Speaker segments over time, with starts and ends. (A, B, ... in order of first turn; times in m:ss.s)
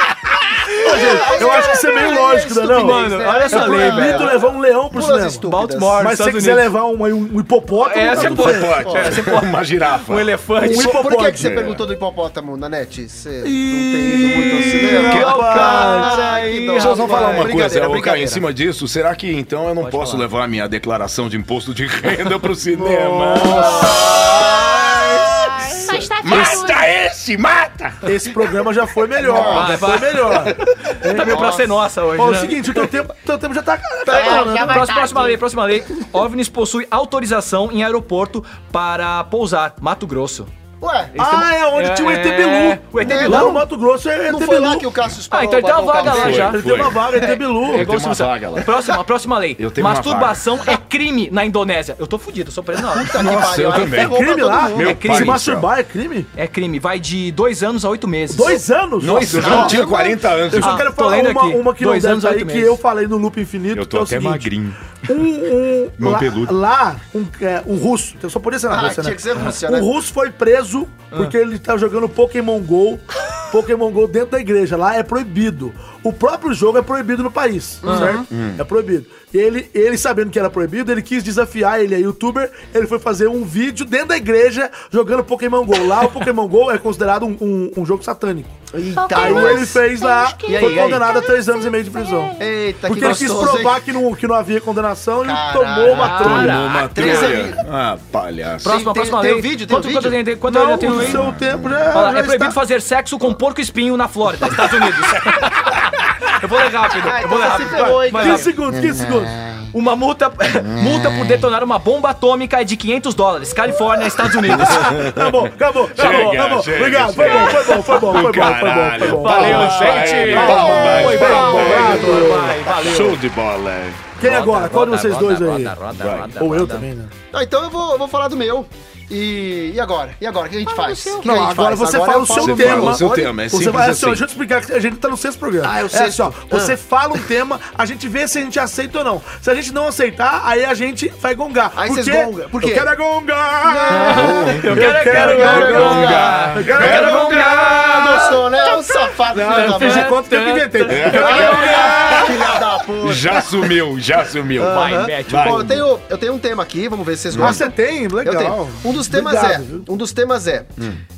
0:00.8-0:05.4 A
0:00.8-0:06.0 B
0:00.8-0:01.7 C
0:02.7-0:04.4 C
0:05.4-0:06.7 C
0:06.0-0:08.8 A
0:07.7-0:11.1 C
0:08.1-0:10.3 D
0:08.8-0:09.1 B
0:10.6-0:11.7 A
0:10.7-0:18.4 B
0:11.3-0:11.8 D
0:13.4-0:16.2 A
0:14.9-0:17.5 C
0:15.1-0:15.3 D
0:16.8-0:25.3 D
0:19.8-0:20.3 C
0:22.9-0:23.6 A
0:23.4-0:25.3 B
0:23.4-0:24.0 C
0:25.4-0:26.8 E
0:26.2-0:28.1 D
0:28.0-0:31.6 A
0:29.2-0:29.7 B
0:29.3-0:32.6 C
0:31.2-0:31.7 B
0:32.2-0:34.9 A
0:34.0-0:35.3 B
0:34.1-0:40.5 C
0:34.2-0:35.4 E
0:40.8-0:41.1 B
0:41.1-0:43.6 C
0:41.2-0:44.9 A
0:43.0-0:43.6 B
0:44.2-0:46.5 B
0:45.3-0:53.1 C
0:46.0-0:48.8 D
0:46.2-0:47.9 A
0:49.6-0:50.6 D
0:52.9-0:55.0 B
0:53.1-0:55.7 D
0:53.7-0:56.3 A
0:54.8-0:55.4 C
0:56.3-0:59.8 C
0:58.3-1:04.5 A
0:59.0-1:00.8 D
0:59.3-1:00.3 B
1:00.6-1:02.8 C
1:03.7-1:04.8 D
1:05.0-1:28.6 A
1:06.0-1:06.6 D
1:08.7-1:09.9 B
1:17.8-1:18.3 B
1:18.3-1:18.6 D
1:28.7-1:29.8 B
1:28.9-1:32.4 E
1:29.1-1:32.3 A
1:30.4-1:31.0 B
1:32.4-1:33.8 B
1:32.8-1:36.6 A
1:35.2-1:37.6 B
1:35.8-1:37.4 C
1:36.2-1:38.8 D
1:38.6-1:41.2 C
1:38.6-1:40.2 B
1:40.4-1:42.6 A
1:40.8-1:41.9 D
1:41.9-1:48.5 C
1:47.0-1:48.5 B
1:47.5-1:49.4 A
1:49.7-1:54.9 C
1:54.4-2:02.6 A
1:54.5-2:04.1 D
1:56.0-1:58.1 C
1:59.0-2:03.2 C
1:59.9-2:03.1 B
2:04.2-2:05.7 A
2:04.2-2:06.9 C
2:06.0-2:06.3 D
2:06.4-2:07.1 A
2:07.3-2:13.3 B
2:10.7-2:11.2 E
2:11.2-2:28.4 A
2:12.3-2:14.3 D
2:15.6-2:16.8 B
2:21.7-2:22.9 B
2:23.6-2:30.1 B
2:23.9-2:32.5 C
2:24.1-2:27.4 D
2:29.3-2:32.5 A
2:30.8-2:32.3 D
2:31.0-2:33.6 B
2:33.0-2:35.9 D
2:34.6-2:40.7 B
2:34.6-2:35.7 C
2:37.3-2:37.6 D
2:37.4-2:39.9 A